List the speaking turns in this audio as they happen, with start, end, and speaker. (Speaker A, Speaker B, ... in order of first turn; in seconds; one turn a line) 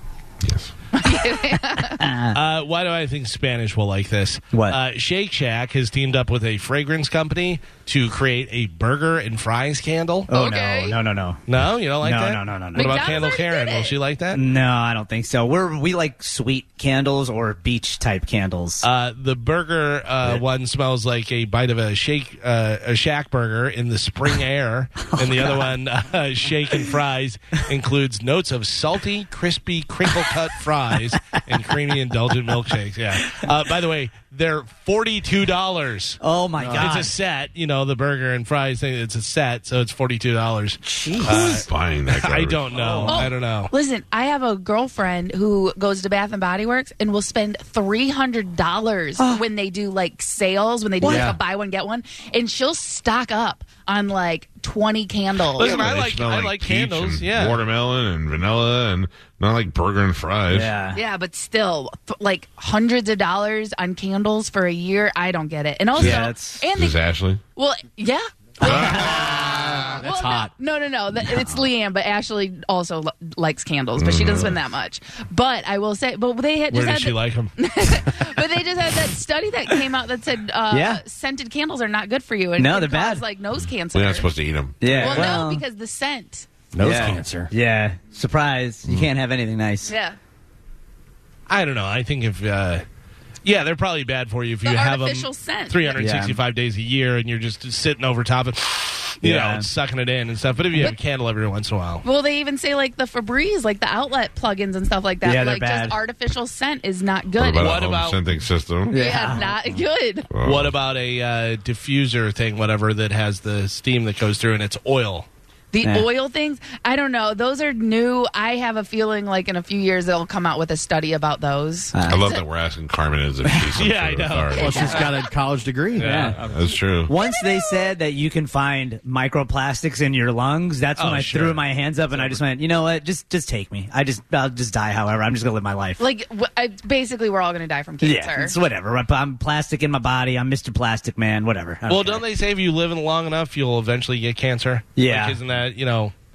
Speaker A: 0.4-0.7
Speaker B: 0.9-2.0
Speaker C: 2.0-2.4
Speaker D: 2.3-10.3
Speaker C: 4.5-4.8
Speaker C: 10.3-11.4
Speaker B: 10.3-11.0
Speaker D: 11.5-14.4
Speaker C: 12.0-13.2
Speaker B: 12.7-13.9
Speaker C: 14.3-18.9
Speaker D: 18.8-36.2
Speaker C: 25.1-25.7
Speaker C: 36.2-37.1
Speaker E: 36.6-37.0
Speaker D: 36.8-43.7
Speaker C: 40.8-41.6
Speaker A: 41.2-42.7
Speaker C: 42.7-43.2
Speaker B: 43.1-55.8
Speaker C: 49.2-49.4
Speaker C: 51.0-51.3
Speaker E: 51.0-51.4
Speaker D: 55.6-57.6
Speaker A: 55.6-60.7
Speaker C: 60.5-61.0
Speaker B: 60.9-67.0
Speaker A: 65.9-67.4
Speaker C: 66.0-66.6
Speaker B: 67.5-84.3
Speaker C: 68.6-69.9
Speaker A: 68.6-70.0
Speaker E: 70.0-70.5
Speaker A: 74.0-74.6
Speaker D: 76.7-77.5
Speaker C: 80.7-81.0
Speaker C: 82.6-83.2
Speaker A: 83.9-85.1
Speaker C: 84.8-85.6
Speaker D: 84.8-85.3
Speaker B: 84.8-86.5
Speaker E: 86.7-87.5
Speaker C: 86.8-89.9
Speaker B: 89.8-90.2
Speaker D: 91.5-92.8
Speaker D: 93.4-102.0
Speaker B: 94.6-96.1
Speaker C: 96.0-96.4
Speaker C: 99.2-99.7
Speaker B: 102.0-107.8
Speaker C: 105.2-106.0
Speaker A: 107.3-109.3
Speaker D: 107.6-108.2
Speaker C: 108.9-109.5
Speaker B: 108.9-110.3
Speaker A: 110.3-110.7
Speaker D: 110.4-115.3
Speaker B: 115.7-122.4
Speaker C: 115.8-116.1
Speaker C: 121.9-122.3
Speaker A: 122.1-124.8
Speaker C: 123.4-123.7
Speaker D: 123.7-125.0
Speaker B: 124.5-125.2
Speaker E: 124.6-126.3
Speaker D: 125.9-126.5
Speaker C: 126.0-126.4
Speaker A: 126.4-127.1
Speaker C: 127.0-136.0
Speaker B: 127.2-127.7
Speaker D: 131.0-132.4
Speaker B: 136.0-138.6
Speaker C: 138.0-142.2
Speaker D: 141.9-146.1
Speaker C: 144.9-145.4